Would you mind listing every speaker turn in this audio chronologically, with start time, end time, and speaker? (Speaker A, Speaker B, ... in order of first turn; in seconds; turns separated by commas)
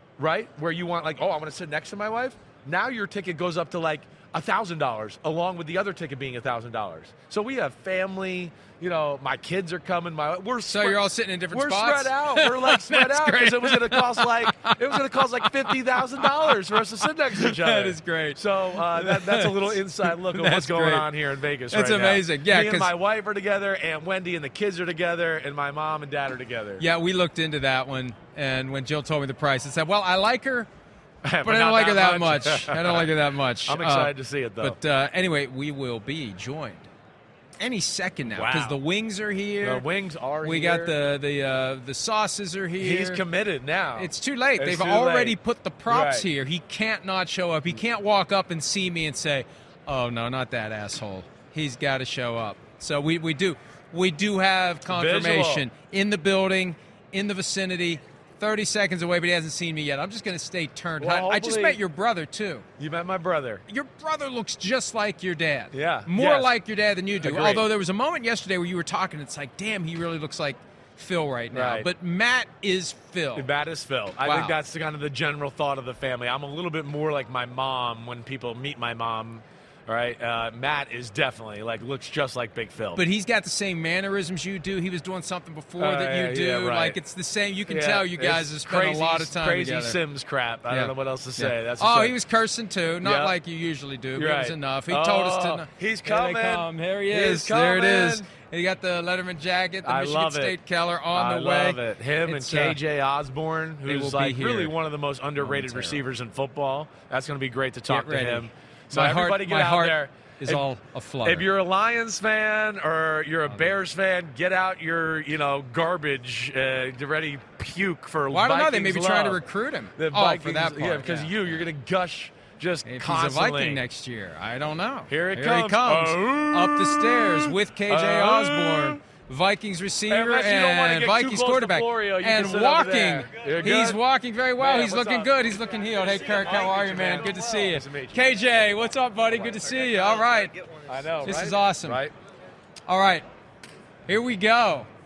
Speaker A: 0.2-26.8, Speaker B: 10.7-16.5, Speaker B: 17.4-21.1, Speaker B: 21.7-22.9, Speaker B: 26.8-30.7, Speaker A: 31.2-33.1, Speaker B: 31.4-36.9, Speaker A: 33.7-34.8, Speaker B: 37.6-39.9, Speaker A: 38.3-38.8, Speaker A: 39.6-40.9, Speaker B: 40.4-43.2, Speaker A: 42.8-45.4, Speaker B: 44.0-62.7, Speaker A: 45.9-46.3, Speaker A: 54.9-55.6, Speaker A: 61.0-61.8, Speaker A: 62.8-63.6, Speaker B: 63.7-73.5, Speaker A: 65.7-66.5, Speaker A: 67.2-67.7, Speaker A: 71.5-71.9, Speaker A: 73.4-83.0, Speaker B: 74.2-74.5, Speaker B: 83.0-90.0, Speaker A: 85.8-87.0, Speaker A: 87.7-92.2, Speaker B: 90.7-102.8, Speaker A: 93.0-93.3, Speaker A: 94.2-98.3, Speaker A: 99.8-100.6, Speaker A: 101.1-110.6, Speaker B: 103.9-104.8, Speaker B: 105.4-106.0, Speaker B: 107.9-111.5, Speaker A: 111.2-119.4, Speaker B: 118.3-121.3, Speaker A: 120.0-123.8, Speaker B: 122.8-140.6, Speaker A: 125.1-129.0, Speaker A: 130.1-134.0, Speaker A: 134.6-138.2, Speaker A: 140.9-142.1, Speaker B: 141.2-142.0, Speaker B: 142.9-143.3, Speaker B: 144.1-144.9